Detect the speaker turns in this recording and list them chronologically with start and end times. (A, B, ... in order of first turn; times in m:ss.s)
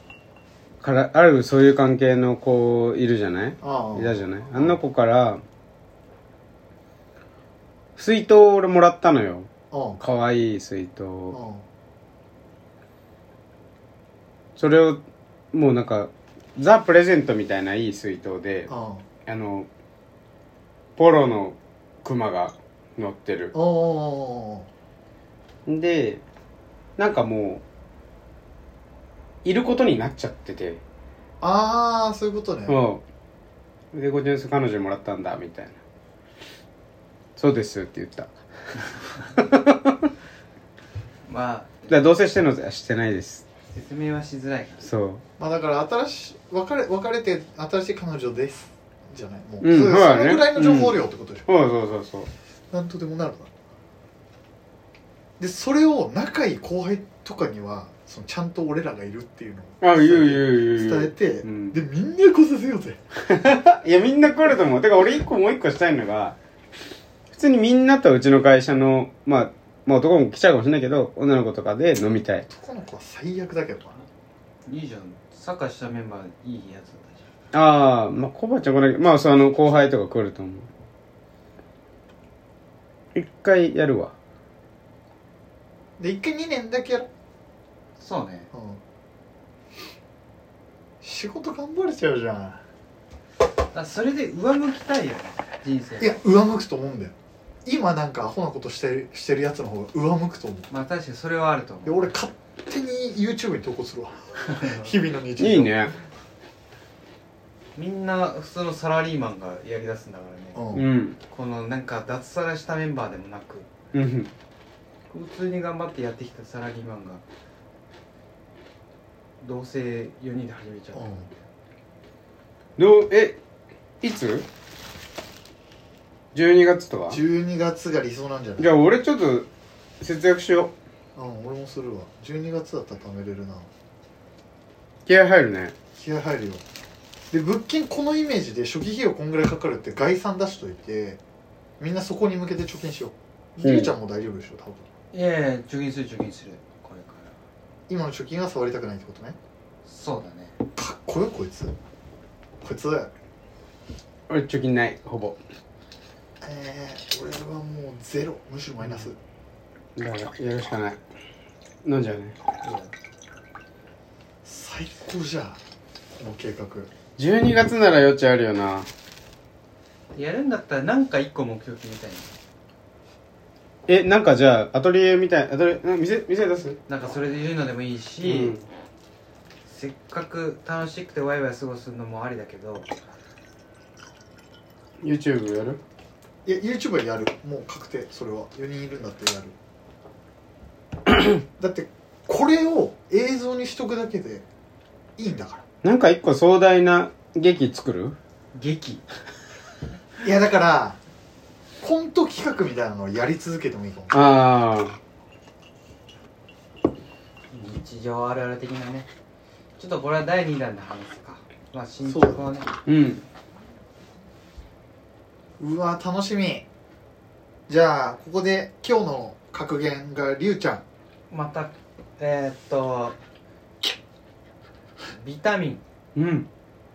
0:00.8-0:05.4 A
0:03.6-0:04.8 B
0:08.0-0:11.4 A
0:09.7-0:10.0 B
0:11.3-0:11.6 B
0:14.6-0:15.0 A
0:15.5-0:18.7 A
0:18.7-0:19.0 B
0:19.3-0:19.7 A
0:21.0-0:23.5 A
0:23.5-0:24.7 B
0:25.7-0:26.2 A
0:27.0-0:27.6 A
0:29.4-0:30.8 A
0:31.4-0:32.8 B
0:32.7-0:33.0 A
0:33.9-0:35.8 A
0:37.4-0:38.3 A
0:39.3-0:40.1 A
0:41.2-0:42.2 C
0:41.9-0:43.4 A
0:43.7-0:44.9 C
0:44.8-0:45.2 A
0:45.4-0:51.5 B
0:49.6-0:52.3 A
0:52.7-0:53.5 B
0:55.4-1:03.0 B
0:59.8-1:01.8 A
1:03.2-1:06.4 A
1:07.3-1:12.5 A
1:12.5-1:14.1 B
1:14.6-1:17.3 C
1:17.5-1:20.7 A
1:23.2-1:24.2 A
1:26.0-1:27.1 B
1:28.0-1:28.5 C
1:28.5-1:28.8 B
1:31.0-1:32.6 B
1:33.7-1:36.2 C
1:36.0-1:37.1 B
1:37.6-1:40.7 B
1:40.7-1:42.1 C
1:41.8-1:45.9 B
1:44.4-1:44.9 C
1:45.4-1:46.0 A
1:47.8-1:50.6 C
1:50.6-1:50.9 B
1:50.7-1:51.2 A
1:51.3-1:53.7 C
1:53.9-1:54.3 A
1:55.1-1:57.2 C
1:59.4-2:01.4 C
2:00.9-2:01.3 B
2:02.8-2:03.4 A
2:04.0-2:04.5 A
2:06.3-2:07.2 A
2:07.1-2:08.8 B
2:08.6-2:09.5 A
2:10.0-2:10.8 A
2:11.2-2:13.7 B
2:15.1-2:15.7 A
2:16.0-2:16.6 B
2:17.3-2:21.2 B
2:21.8-2:24.9 B
2:23.6-2:23.9 A
2:25.1-2:27.4 C
2:27.9-2:29.4 B
2:29.8-2:30.6 C
2:30.8-2:31.8 B
2:32.6-2:33.1 B
2:34.3-2:35.4 A
2:36.4-2:39.2 B
2:40.0-2:41.0 A
2:41.8-2:42.4 A
2:42.6-2:42.9 C
2:44.4-2:45.6 B
2:46.1-2:46.9 B
2:47.2-2:48.9 A
2:50.1-2:52.3 C
2:53.9-2:56.8 A
2:56.9-2:58.6 C
2:58.2-2:58.6 A
2:59.7-3:02.9 C
3:05.0-3:05.8 A
3:06.4-3:09.6 B
3:11.6-3:14.4 B
3:15.2-3:15.6 B
3:15.8-3:18.2 A
3:18.5-3:19.0 C
3:20.2-3:21.0 B
3:21.8-3:24.3 B
3:24.1-3:25.0 A
3:27.5-3:29.1 C
3:29.8-3:32.7 C
3:32.0-3:32.5 B
3:32.9-3:33.2 A
3:35.6-3:36.7 B
3:37.7-3:40.8 B
3:41.3-3:43.2 C
3:45.1-3:45.8 C
3:46.2-3:46.5 A